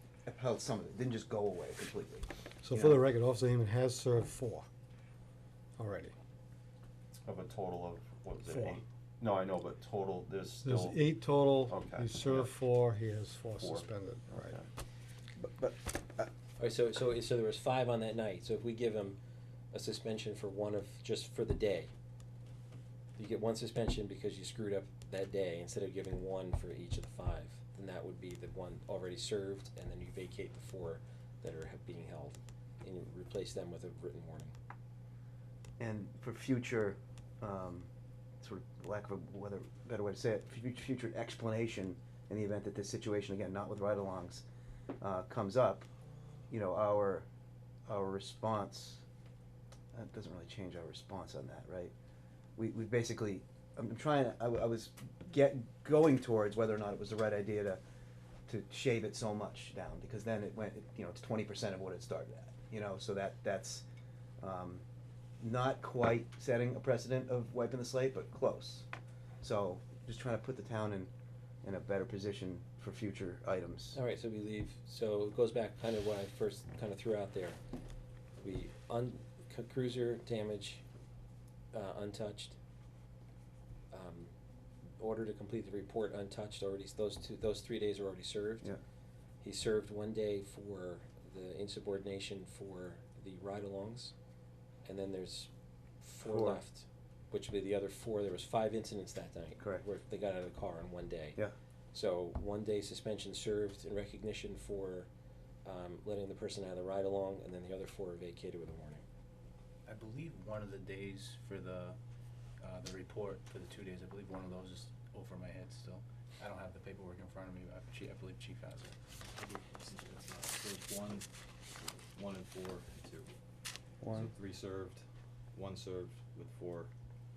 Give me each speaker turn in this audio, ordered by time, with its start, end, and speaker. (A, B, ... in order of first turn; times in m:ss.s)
0:00.3-0:03.0 A
0:02.6-0:04.7 B
0:05.8-0:06.1 B
0:07.2-0:12.5 C
0:08.5-0:08.8 B
0:10.6-0:14.6 B
0:13.6-0:14.7 C
0:15.4-0:16.3 A
0:16.6-0:19.2 D
0:19.7-0:21.9 D
0:23.2-0:34.5 D
0:35.8-0:37.9 A
0:38.4-0:44.4 A
0:45.0-0:45.9 A
0:46.5-0:47.3 A
0:47.9-0:49.0 A
0:49.9-0:51.9 A
0:52.6-0:57.8 A
0:58.5-1:03.8 A
1:04.4-1:04.8 A
1:05.4-1:08.9 A
1:09.4-1:11.1 A
1:11.6-1:14.0 A
1:13.9-1:17.6 D
1:18.4-1:20.8 D
1:21.7-1:22.6 D
1:23.9-1:24.3 D
1:25.0-1:28.7 D
1:29.4-1:34.1 D
1:34.8-1:35.5 D
1:36.0-1:41.4 D
1:36.2-1:36.6 A
1:39.6-1:39.8 A
1:41.9-1:45.1 D
1:45.6-1:49.0 D
1:49.9-1:52.0 E
1:52.6-1:59.0 E
1:59.4-2:01.3 F
2:02.1-2:03.3 F
2:04.0-2:04.3 A
2:04.1-2:06.9 F